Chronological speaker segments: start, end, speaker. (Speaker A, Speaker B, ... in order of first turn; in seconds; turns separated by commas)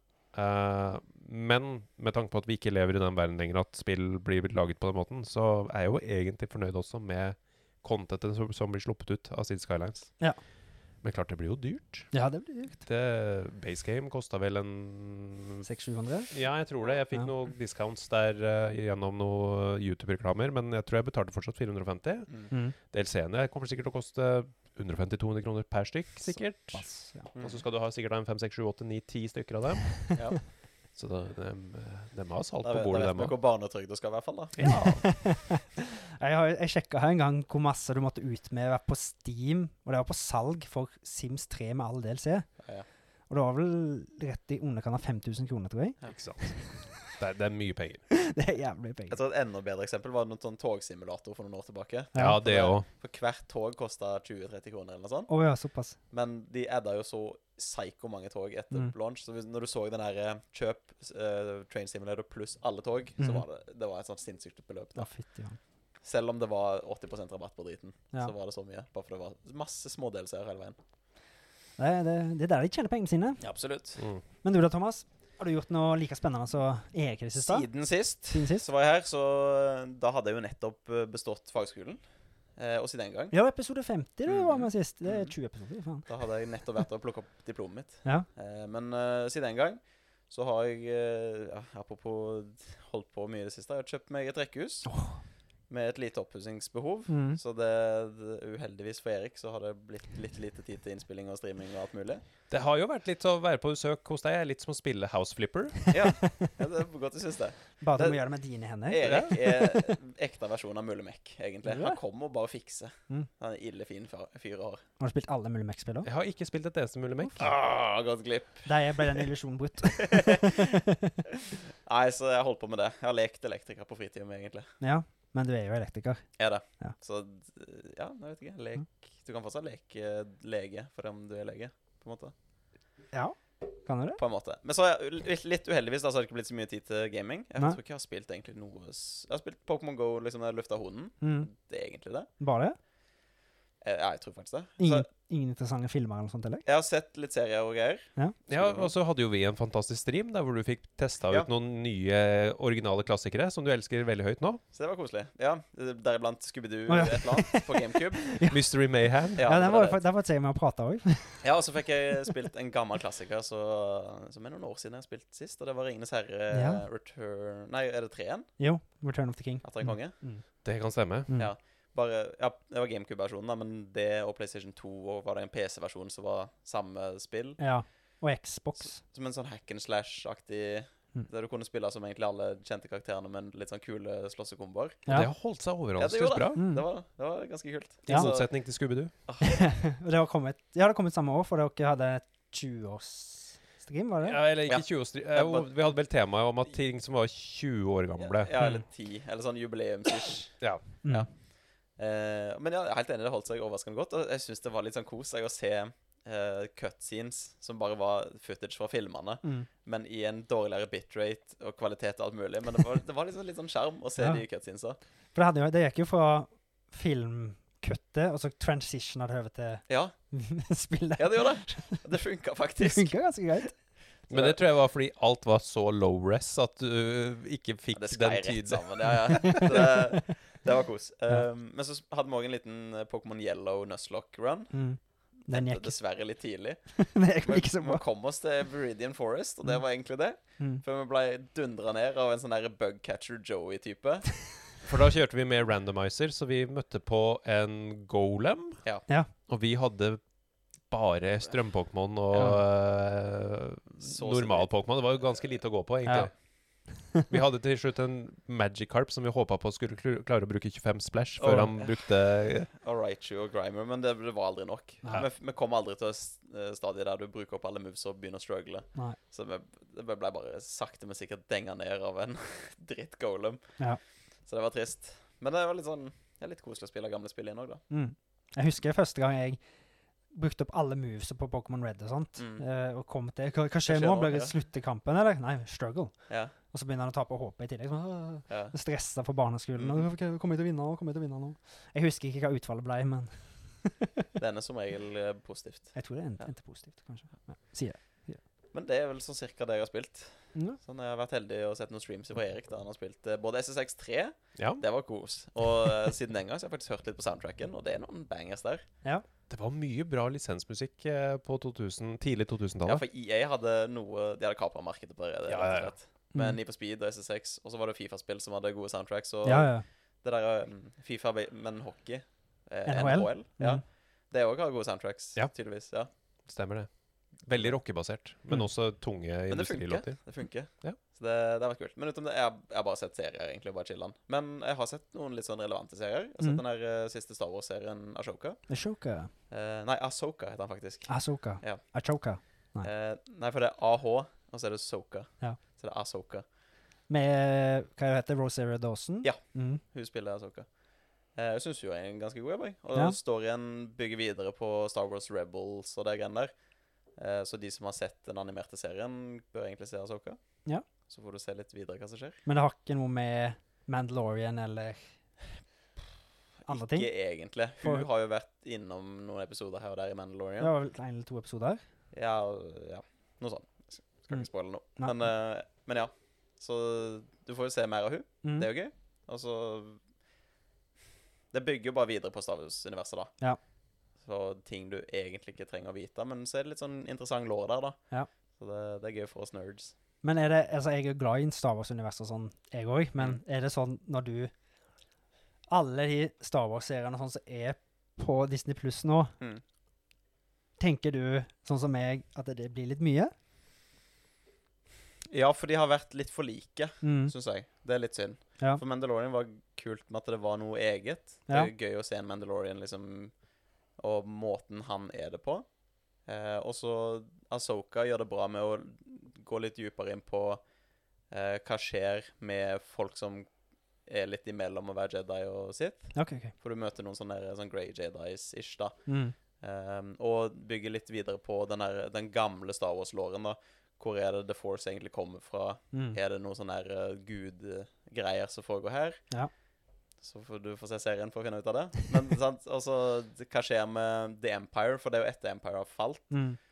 Speaker A: 0.3-10.1, Speaker A: 11.0-12.1, Speaker B: 12.1-12.8, Speaker A: 12.8-15.7, Speaker B: 15.6-16.3, Speaker A: 16.3-30.1, Speaker B: 26.7-27.3, Speaker C: 27.3-27.6, Speaker C: 30.1-30.4, Speaker A: 30.9-33.3, Speaker C: 32.6-34.7, Speaker A: 34.6-35.1, Speaker B: 34.6-42.5, Speaker C: 42.6-42.9, Speaker B: 43.3-46.9, Speaker A: 46.1-48.0, Speaker B: 48.1-49.2, Speaker C: 49.1-55.3, Speaker B: 52.1-52.4, Speaker A: 52.1-52.9, Speaker B: 55.3-56.0, Speaker C: 56.1-65.1, Speaker B: 63.2-63.4, Speaker B: 65.0-65.6, Speaker C: 66.0-70.8, Speaker B: 71.8-73.4, Speaker C: 73.4-74.0, Speaker B: 74.4-77.7, Speaker C: 77.4-82.0, Speaker B: 78.3-78.7, Speaker C: 82.6-83.3, Speaker B: 83.3-86.1, Speaker C: 84.3-85.3, Speaker C: 86.1-94.9, Speaker B: 94.8-95.2, Speaker C: 95.7-102.2, Speaker B: 97.1-97.4, Speaker A: 102.5-105.9, Speaker C: 105.9-108.2, Speaker B: 105.9-106.5, Speaker B: 107.8-109.9, Speaker C: 108.8-114.8, Speaker B: 111.6-112.0, Speaker B: 115.0-116.1, Speaker A: 116.0-117.5, Speaker C: 117.4-119.2, Speaker B: 118.6-121.1, Speaker C: 119.8-120.8, Speaker C: 121.8-124.7, Speaker B: 124.8-126.2, Speaker C: 126.4-132.3, Speaker B: 133.1-134.2, Speaker C: 134.2-142.3, Speaker B: 141.2-141.5, Speaker B: 142.4-142.8, Speaker C: 143.8-145.1, Speaker B: 144.8-146.6, Speaker C: 146.7-148.9, Speaker A: 148.5-154.6, Speaker C: 154.7-158.4, Speaker B: 156.9-158.6, Speaker A: 158.5-159.4, Speaker B: 159.3-161.5, Speaker C: 159.4-160.0, Speaker C: 161.4-168.5, Speaker B: 166.5-166.8, Speaker B: 168.6-170.4, Speaker C: 169.6-170.2, Speaker A: 170.6-171.3, Speaker C: 171.3-177.6, Speaker B: 177.6-179.0, Speaker C: 178.9-185.0, Speaker A: 185.1-186.6, Speaker C: 186.0-188.5, Speaker B: 186.6-186.8, Speaker A: 188.1-189.1, Speaker C: 189.3-189.6, Speaker B: 189.4-194.4, Speaker A: 194.2-198.5, Speaker C: 194.7-195.7, Speaker C: 198.2-200.6, Speaker B: 198.6-198.8, Speaker C: 202.0-215.0, Speaker B: 215.3-222.0, Speaker C: 219.9-220.1, Speaker C: 221.2-223.1, Speaker B: 222.8-223.7, Speaker C: 224.3-224.6, Speaker A: 224.3-229.6, Speaker C: 227.9-234.8, Speaker B: 229.1-230.3, Speaker B: 234.7-235.9, Speaker C: 235.4-244.5, Speaker B: 236.9-238.0, Speaker A: 244.9-248.8, Speaker A: 249.5-250.2, Speaker A: 250.8-256.3, Speaker C: 252.3-252.6, Speaker C: 254.0-255.4, Speaker B: 256.0-256.3, Speaker A: 257.3-262.7, Speaker C: 261.4-262.1, Speaker C: 262.7-273.6, Speaker C: 274.4-277.8, Speaker B: 277.9-279.6, Speaker B: 280.3-286.1, Speaker C: 282.4-282.6, Speaker C: 283.9-284.5, Speaker B: 286.7-294.2, Speaker C: 288.5-288.7, Speaker C: 289.8-290.1, Speaker C: 294.4-296.5, Speaker B: 295.9-298.4, Speaker C: 298.7-308.8, Speaker A: 304.6-304.8, Speaker A: 309.5-313.0, Speaker C: 312.9-326.1, Speaker A: 315.5-315.9, Speaker B: 319.4-319.8, Speaker B: 322.9-323.8, Speaker A: 326.4-330.2, Speaker C: 327.5-327.8, Speaker C: 329.5-338.6, Speaker B: 338.7-339.3, Speaker C: 339.5-341.8, Speaker B: 341.1-342.9, Speaker C: 342.8-346.4, Speaker B: 347.1-349.8, Speaker C: 349.2-350.7, Speaker C: 351.3-356.5, Speaker C: 357.1-362.4, Speaker B: 362.4-365.0, Speaker C: 366.6-370.7, Speaker B: 366.7-367.1, Speaker B: 370.6-371.8, Speaker C: 372.1-380.0, Speaker B: 374.3-375.1, Speaker B: 378.4-378.7, Speaker C: 381.5-383.3, Speaker C: 384.2-388.0, Speaker C: 388.6-389.9, Speaker B: 390.2-394.5, Speaker B: 395.7-399.3, Speaker B: 400.8-403.3, Speaker C: 405.3-413.3, Speaker B: 407.0-407.3, Speaker C: 414.0-415.6, Speaker C: 416.2-420.6, Speaker C: 421.3-423.5, Speaker C: 424.1-429.0, Speaker B: 426.1-426.5, Speaker B: 429.1-429.3, Speaker C: 429.6-439.2, Speaker B: 435.9-436.2, Speaker C: 440.2-446.4, Speaker B: 446.3-446.6